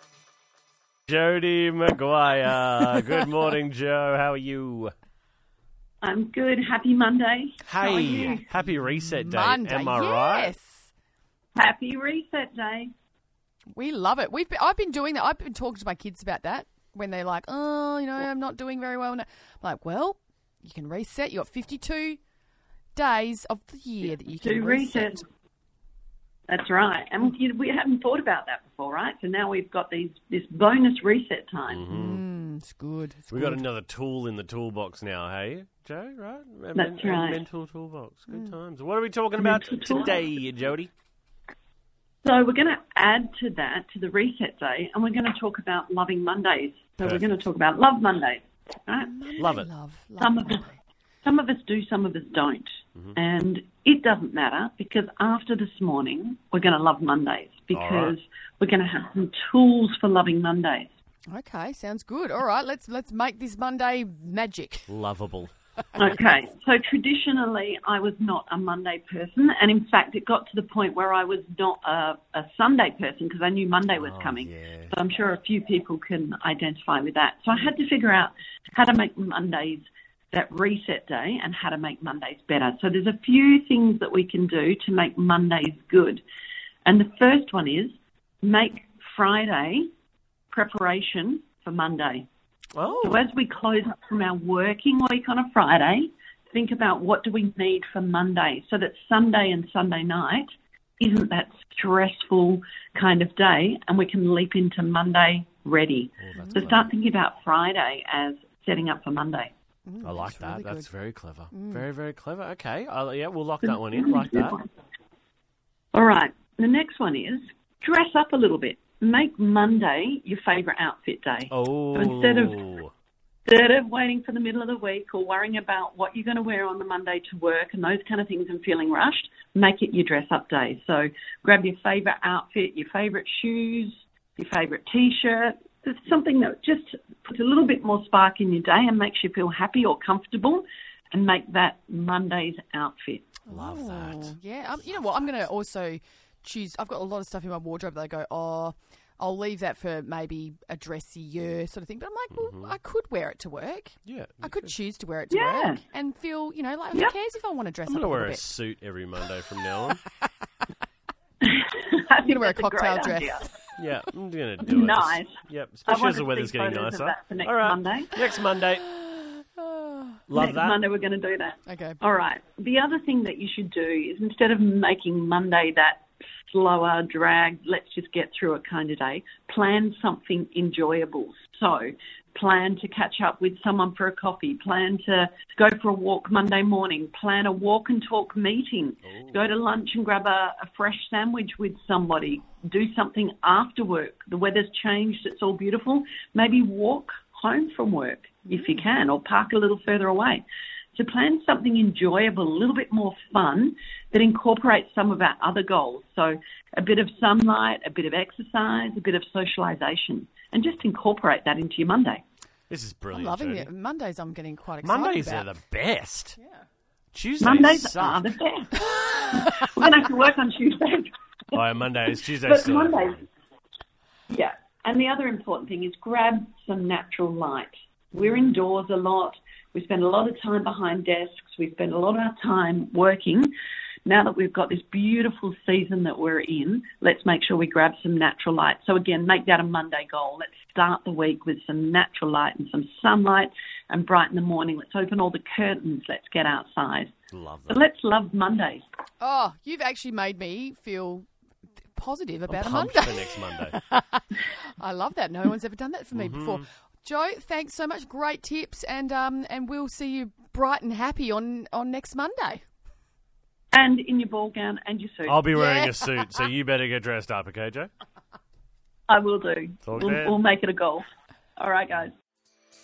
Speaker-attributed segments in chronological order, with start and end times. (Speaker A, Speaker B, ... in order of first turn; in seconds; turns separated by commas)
Speaker A: 1.1-4.9, Speaker B: 2.8-3.2, Speaker C: 6.0-8.5, Speaker A: 7.7-10.5, Speaker B: 9.2-10.9, Speaker C: 11.6-12.9, Speaker B: 13.8-22.2, Speaker B: 22.9-25.2, Speaker C: 24.4-25.2, Speaker C: 26.5-31.9, Speaker A: 31.7-32.2, Speaker B: 31.9-33.6, Speaker A: 33.3-40.9, Speaker C: 36.8-37.4, Speaker B: 38.3-38.5, Speaker C: 39.4-40.3, Speaker C: 42.2-49.5, Speaker B: 49.0-50.6, Speaker A: 49.4-49.7, Speaker C: 50.2-50.7, Speaker C: 51.2-60.9, Speaker A: 57.7-58.1, Speaker B: 61.3-64.9, Speaker A: 64.9-65.5, Speaker C: 66.0-86.2, Speaker A: 74.0-74.9, Speaker C: 86.8-89.9, Speaker C: 90.5-92.3, Speaker A: 92.8-93.2, Speaker C: 93.0-100.5, Speaker C: 101.0-109.5, Speaker A: 106.2-106.9, Speaker B: 109.9-110.9, Speaker A: 110.0-114.6, Speaker B: 111.5-111.8, Speaker C: 113.9-114.7, Speaker C: 115.9-122.6, Speaker A: 121.5-122.9, Speaker C: 123.5-143.3, Speaker B: 143.5-158.4, Speaker A: 143.5-145.3, Speaker A: 152.3-152.8, Speaker A: 154.1-154.7, Speaker C: 155.3-155.8, Speaker A: 157.9-160.0, Speaker C: 161.4-163.5, Speaker B: 162.2-163.5, Speaker A: 163.8-168.9, Speaker C: 164.6-168.1, Speaker B: 168.9-170.2, Speaker A: 170.3-170.8, Speaker C: 170.3-200.4, Speaker B: 171.7-172.0, Speaker A: 189.1-189.4, Speaker C: 200.9-212.2, Speaker A: 212.7-213.7, Speaker B: 213.1-215.5, Speaker A: 214.8-216.4, Speaker A: 217.1-218.2, Speaker C: 217.4-221.6, Speaker A: 221.5-223.2, Speaker C: 222.4-223.3, Speaker C: 224.3-233.5, Speaker C: 234.1-247.1, Speaker A: 247.3-247.8, Speaker C: 247.7-248.8, Speaker B: 249.2-251.3, Speaker B: 251.9-262.6, Speaker A: 252.5-253.8, Speaker A: 256.1-256.6, Speaker C: 263.7-265.4, Speaker A: 265.3-267.9, Speaker B: 265.5-266.3, Speaker C: 269.1-271.1, Speaker A: 269.9-270.4, Speaker C: 271.6-272.1